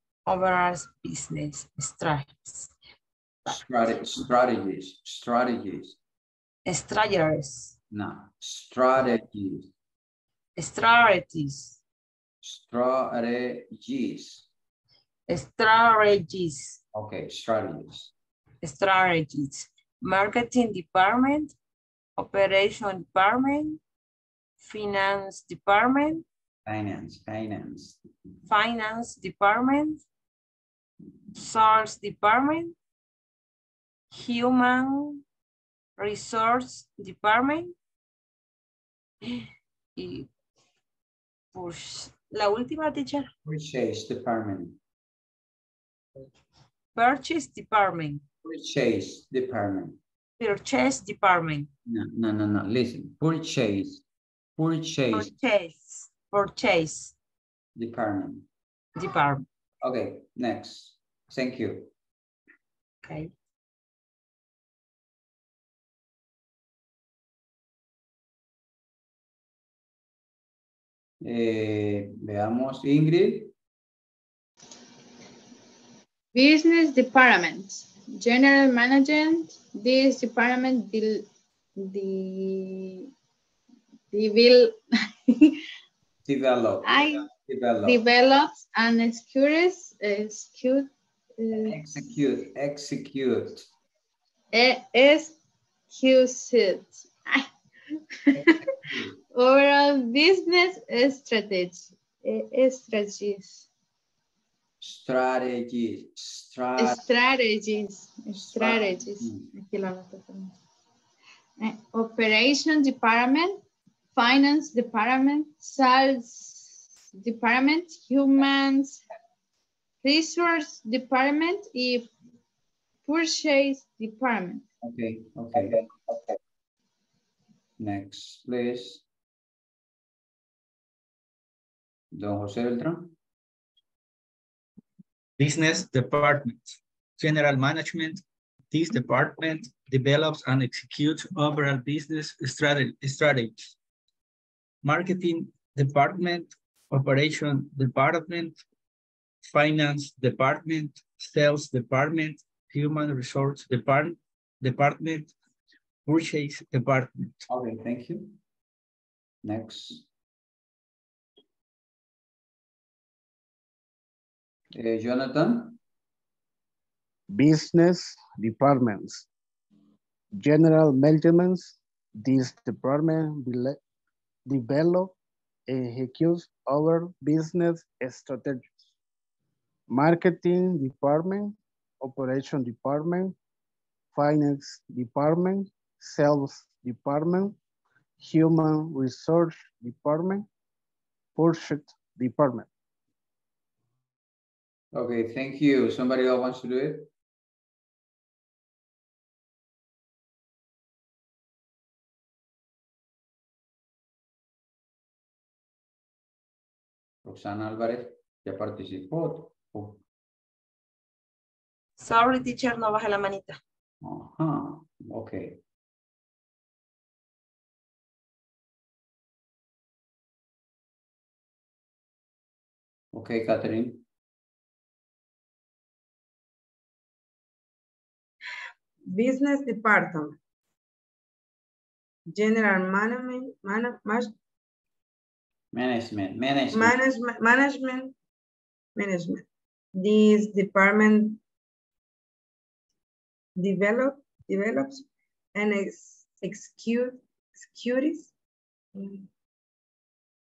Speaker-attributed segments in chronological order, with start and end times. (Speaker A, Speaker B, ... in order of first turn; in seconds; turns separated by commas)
Speaker A: 0.2-2.7, Speaker B: 3.5-6.0, Speaker A: 6.7-7.7, Speaker B: 7.9-9.7, Speaker A: 10.6-11.8, Speaker B: 12.4-14.5, Speaker A: 15.3-16.8, Speaker B: 16.9-18.1, Speaker A: 18.6-21.5, Speaker A: 22.2-23.8, Speaker A: 24.6-26.2, Speaker B: 26.6-28.0, Speaker A: 28.5-30.0, Speaker A: 31.3-32.7, Speaker A: 34.1-35.2, Speaker A: 36.0-37.7, Speaker A: 39.2-40.3, Speaker A: 41.5-43.3, Speaker B: 43.4-44.8, Speaker A: 46.9-48.2, Speaker B: 48.4-50.0, Speaker A: 50.4-51.7, Speaker B: 51.9-54.0, Speaker B: 54.6-55.3, Speaker A: 55.1-57.1, Speaker B: 57.8-58.5, Speaker A: 59.0-59.4, Speaker B: 59.8-61.9, Speaker A: 63.0-63.3, Speaker B: 71.2-73.5, Speaker C: 76.3-81.2, Speaker C: 81.8-83.1, Speaker C: 84.1-84.8, Speaker C: 85.3-85.6, Speaker B: 86.2-88.0, Speaker C: 86.8-87.3, Speaker C: 87.8-91.8, Speaker B: 91.6-93.7, Speaker C: 94.5-95.3, Speaker C: 95.9-97.5, Speaker C: 98.3-98.5, Speaker B: 98.3-99.2, Speaker C: 99.3-103.7, Speaker B: 104.8-107.1, Speaker C: 106.8-110.5, Speaker B: 108.5-109.5, Speaker C: 111.6-113.6, Speaker C: 114.1-119.0, Speaker C: 120.0-122.1, Speaker C: 123.0-124.6, Speaker B: 124.8-125.9, Speaker B: 127.8-129.0, Speaker B: 132.1-133.1, Speaker D: 135.4-143.7, Speaker D: 144.8-148.6, Speaker D: 149.5-155.3, Speaker D: 156.1-157.3, Speaker B: 157.5-158.4, Speaker B: 159.4-160.1, Speaker B: 164.7-165.8, Speaker E: 167.3-169.3, Speaker E: 170.3-173.8, Speaker E: 174.4-175.1, Speaker E: 175.7-178.8, Speaker E: 179.9-183.3, Speaker E: 184.1-187.6, Speaker E: 188.2-190.5, Speaker E: 191.3-192.7, Speaker B: 194.9-197.1, Speaker B: 207.2-210.0, Speaker A: 212.0-213.6, Speaker B: 214.0-215.6, Speaker B: 223.1-224.0, Speaker F: 229.1-230.4, Speaker F: 232.3-234.3, Speaker B: 235.7-237.0, Speaker F: 236.7-238.1, Speaker F: 238.9-239.4, Speaker F: 239.9-241.4, Speaker F: 243.6-248.3, Speaker F: 248.9-249.3